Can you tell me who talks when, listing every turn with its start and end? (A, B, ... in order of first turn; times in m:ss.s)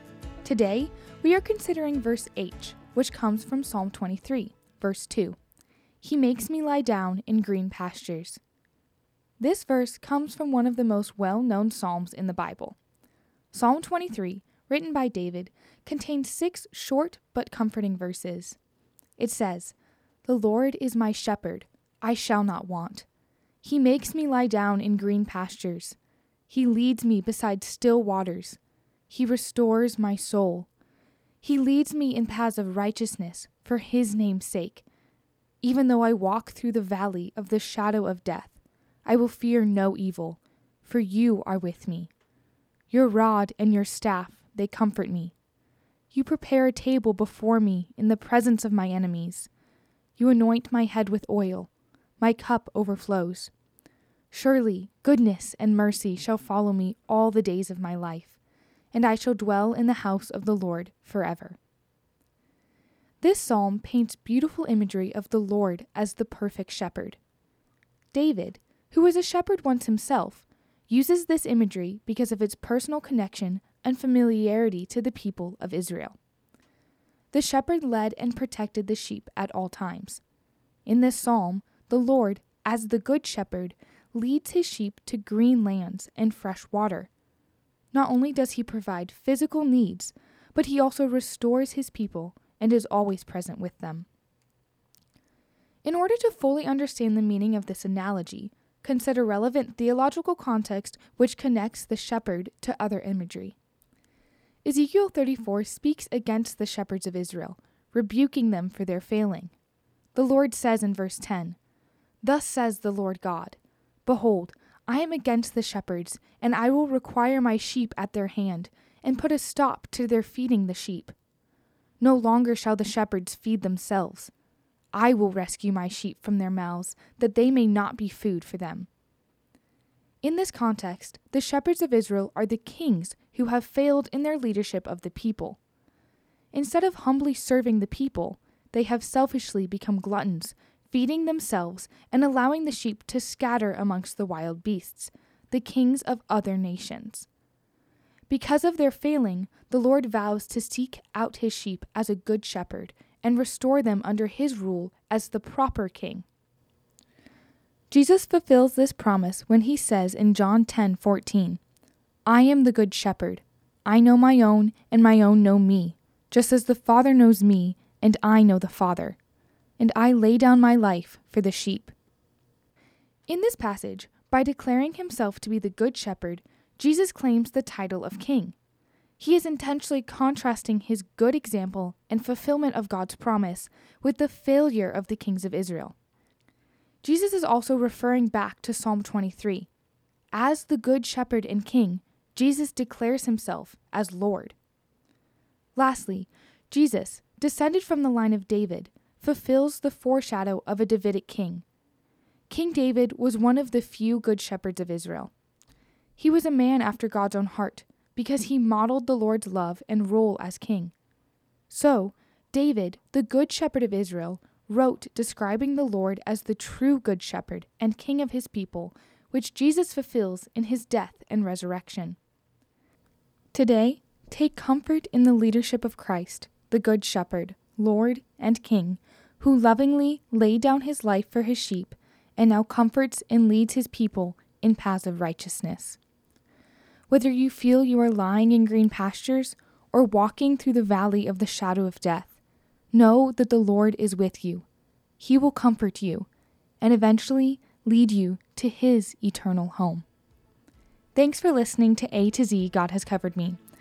0:00.4-0:05.4 A
0:06.0-0:08.4 A
0:09.4-0:12.8 A
0:13.5-0:18.6 A
0:19.2-0:23.1 A
0:23.6-0:26.0 A
0:26.5-0:30.7 A
0:31.4-0:34.8 A
0:35.6-0:42.1 A
0:42.9-0:45.3 A
0:46.1-0:49.5 A
0:50.2-0:53.5 A
0:54.3-0:58.4 A
0:58.9-1:01.6 A
1:03.2-1:07.2 A
1:08.1-1:16.2 A
1:17.3-1:20.2 A
1:20.8-1:27.1 A
1:27.9-1:34.1 A
1:35.8-1:43.6 A
1:44.6-1:49.5 A
1:50.1-1:51.6 A
1:52.2-2:01.1 A
2:02.0-2:04.3 A
2:04.9-2:08.9 A
2:10.2-2:15.6 A
2:16.5-2:27.3 A
2:28.3-2:36.2 A
2:37.9-2:41.6 A
2:42.2-2:49.2 A
2:49.8-2:51.9 A
2:53.3-2:58.6 A
2:59.2-3:06.0 A
3:07.0-3:09.7 A
3:10.3-3:14.6 A
3:15.7-3:21.6 A
3:22.5-3:25.3 A
3:26.2-3:30.9 A
3:31.7-3:42.2 A
3:43.5-3:56.0 A
3:57.1-4:02.3 A
4:02.9-4:04.6 A
4:05.2-4:06.3 A
4:06.8-4:10.0 A
4:11.1-4:13.6 A